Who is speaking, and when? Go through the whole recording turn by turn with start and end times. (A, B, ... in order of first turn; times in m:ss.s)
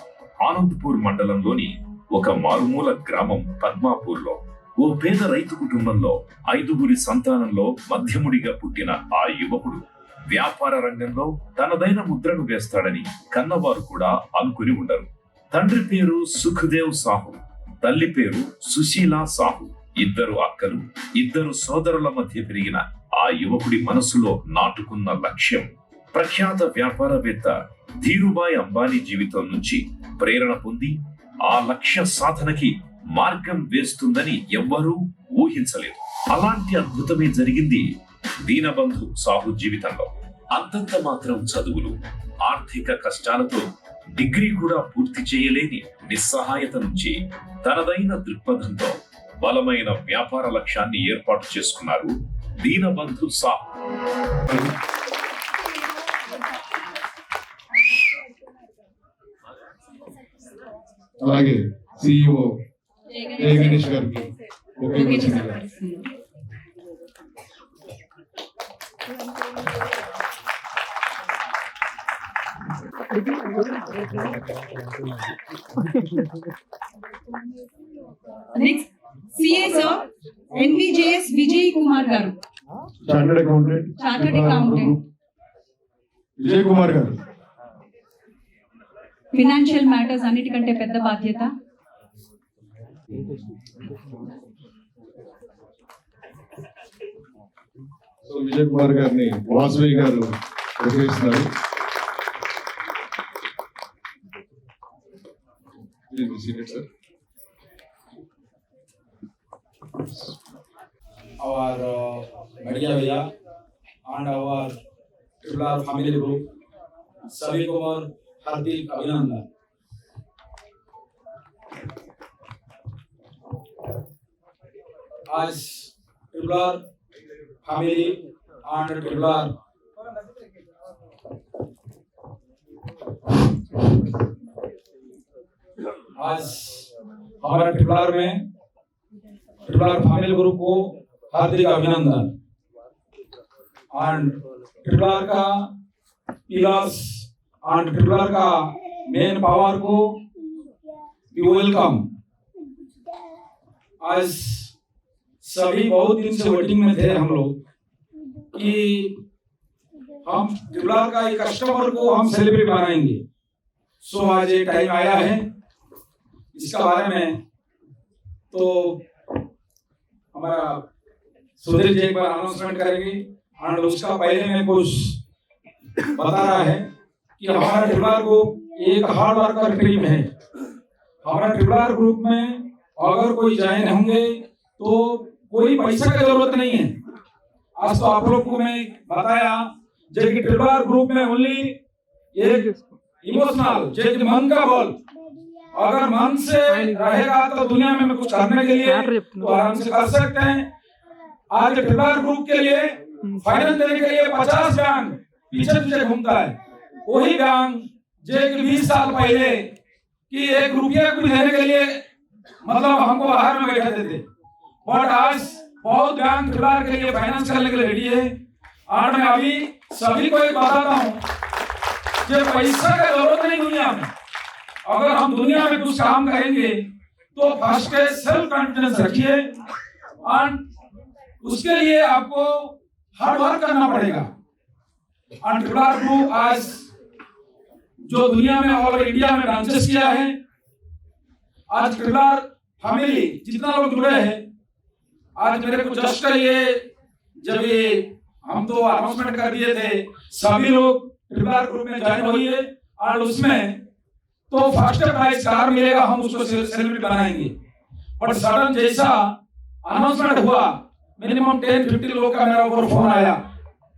0:00.4-0:53.6 A
1:01.2-1:02.6 B
1:03.1-1:03.8 C
1:03.4-1:05.6 B
1:04.9-1:06.1 C
1:18.5-1:22.4 C
1:23.0-1:25.0 B
1:24.0-1:24.9 C
1:26.4-1:27.2 B
1:29.3-1:31.5 C
1:38.2-1:41.5 B
1:46.1-1:46.8 B
1:51.4-1:53.3 D
1:54.1-1:54.8 D
1:55.4-1:56.4 D
1:57.3-1:59.4 D
2:05.3-2:06.8 D
2:07.6-2:09.5 D
2:16.2-2:16.8 D
2:17.4-2:18.4 D
2:19.7-2:22.3 D
2:23.9-2:25.7 D
2:26.5-2:30.1 D
2:31.3-2:32.0 D
2:34.0-2:34.7 D
2:35.4-2:37.5 D
2:38.5-2:39.2 D
2:40.2-2:43.2 D
2:44.0-2:45.4 D
2:46.5-2:47.4 D
2:48.5-2:49.0 D
2:50.3-2:50.8 D
2:51.6-2:55.2 D
2:56.1-2:56.9 D
2:57.4-3:00.3 D
3:01.2-3:07.0 D
3:07.8-3:11.8 D
3:12.4-3:15.0 D
3:15.8-3:20.7 D
3:21.5-3:29.7 D
3:30.3-3:32.0 D
3:32.6-3:34.2 D
3:34.8-3:38.3 D
3:38.9-3:41.2 D
3:42.2-3:44.1 D
3:44.9-3:46.8 D
3:47.4-3:49.4 D
3:50.3-3:50.6 D
3:51.4-3:54.3 D
3:55.4-3:56.9 D
3:58.1-4:00.4 D
4:01.7-4:04.4 D
4:05.4-4:06.8 D
4:07.4-4:13.8 D
4:14.5-4:17.5 D
4:18.2-4:19.3 D
4:19.8-4:23.4 D